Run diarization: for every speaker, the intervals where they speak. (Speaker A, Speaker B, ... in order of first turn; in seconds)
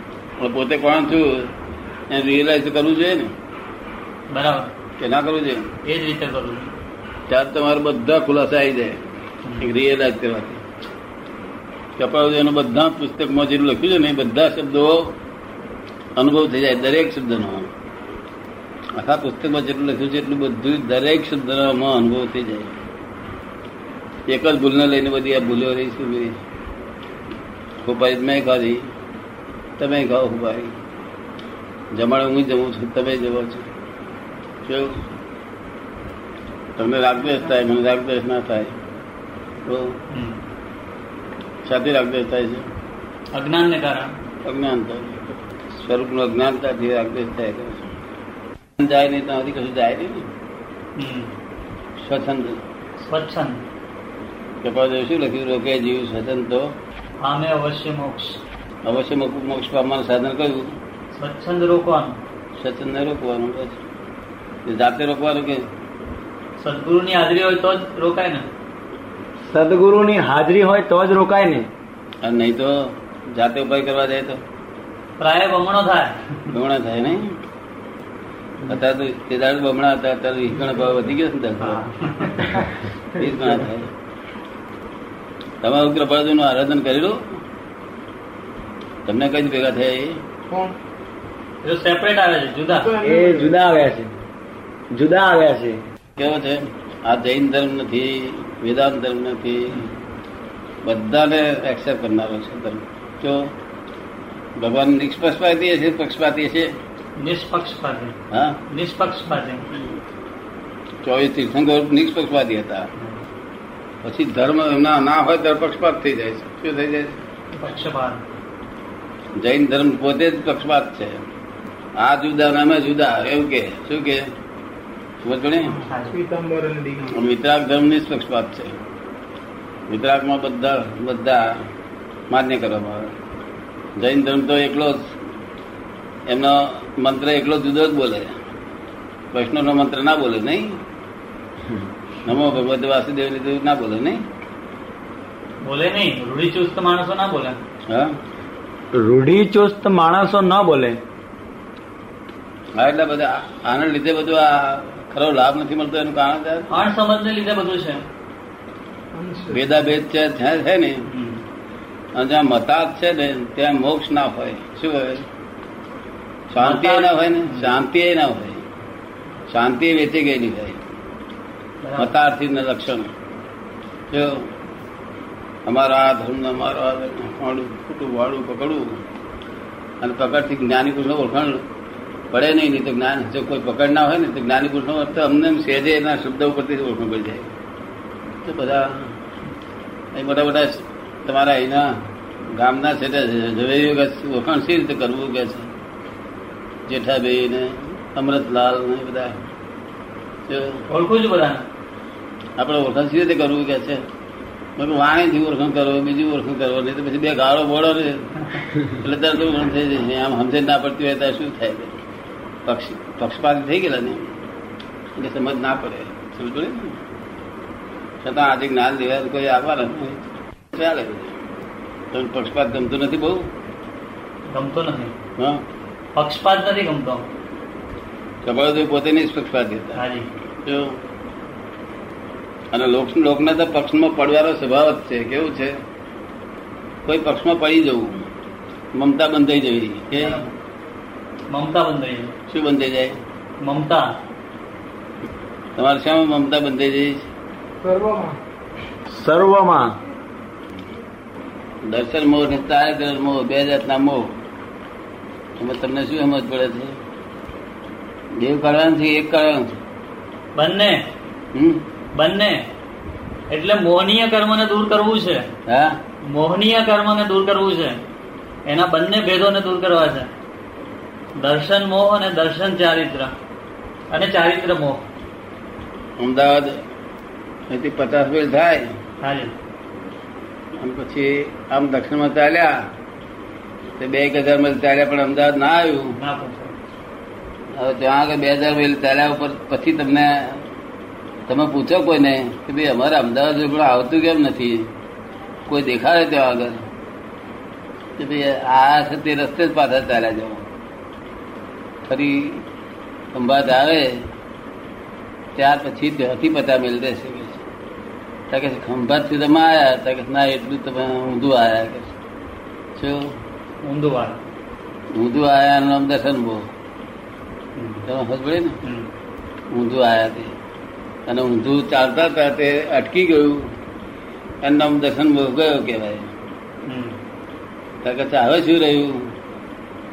Speaker A: 0.4-1.6, 2.1-3.3, 5.0-5.7, 7.3-9.0, 9.6-10.6, 12.0-15.2, 16.2-17.7, 19.0-22.7, 24.3-26.4, 27.8-28.9, 29.8-30.7, 31.9-33.7, 34.6-35.0, 36.8-38.7, 39.7-40.0, 41.6-42.7, 44.4-47.9, 48.8-50.3, 52.0-52.6, 54.6-56.8, 58.9-60.8, 62.6-63.8, 64.7-65.7, 72.2-74.4, 76.5-77.4, 78.7-81.9, 83.1-83.9, 85.6-87.3, 89.1-90.2, 96.2-99.9, 100.8-103.5, 104.6-106.7, 108.3-108.6, 111.0-112.9, 114.0-117.2, 119.4-121.2, 122.0-124.3, 125.2-125.8, 127.1-128.8, 129.9-131.6, 132.3-133.1, 134.0-135.1, 136.3-138.4, 139.3-140.8, 142.2-144.2, 147.9-148.2, 152.8-156.7, 159.5-161.1, 162.2-165.3, 166.5-168.6, 169.5-170.8, 172.0-173.1, 174.1-174.5, 175.7-179.0, 180.0-181.6, 182.3-187.5, 188.4-189.1, 190.1-192.0, 192.5-195.7, 196.9-199.4, 200.5-200.8, 202.6-204.0, 204.8-211.9, 212.7-214.3, 215.2-217.0, 218.2-220.2, 220.7-221.4, 222.1-223.5, 225.4-225.6, 228.4-230.0, 230.6-231.0, 232.7-235.8, 237.1-238.3, 238.9-240.4, 242.5-243.2, 245.8-247.3, 251.8-254.3, 255.6-257.0, 258.4-259.8, 261.5-261.8, 265.7-266.0, 276.2-276.8, 277.7-278.9, 280.8-282.8, 284.0-286.2, 287.8-290.6, 291.5-294.9, 295.7-296.8, 298.2-300.7, 302.1-302.7, 303.3-304.3, 305.6-307.6, 308.5-312.1, 313.0-313.4, 315.1-316.7, 318.1-318.8, 319.7-320.5, 321.3-323.7, 324.6-326.3, 328.0-329.3
Speaker B: 4.3-4.7, 5.8-6.7, 9.4-9.7, 40.1-40.4, 43.3-44.1, 51.0-51.3, 53.0-53.6, 57.2-58.4, 61.1-62.2, 66.6-68.5, 75.2-76.4, 81.6-82.5, 91.6-92.9, 107.2-108.2, 108.7-109.7, 117.5-118.2, 125.8-126.2, 145.6-147.6, 156.7-158.0, 161.1-161.4, 166.6-167.8, 171.8-172.1, 200.9-201.7, 224.5-225.1, 226.2-227.3, 229.9-230.3, 240.2-240.5, 241.5-242.4, 243.6-244.2, 260.6-261.0, 262.1-262.7, 263.5-265.5, 266.2-268.0, 268.7-270.3, 271.4-273.3, 274.1-275.0, 279.2-279.5, 286.1-286.8, 313.8-314.4, 317.8-318.0, 318.8-319.1, 326.9-327.2
Speaker C: 69.5-71.7, 93.0-94.1, 94.9-95.8, 148.9-151.0, 249.1-250.0
Speaker D: 92.8-93.5, 126.1-127.1, 159.1-159.5, 247.8-248.4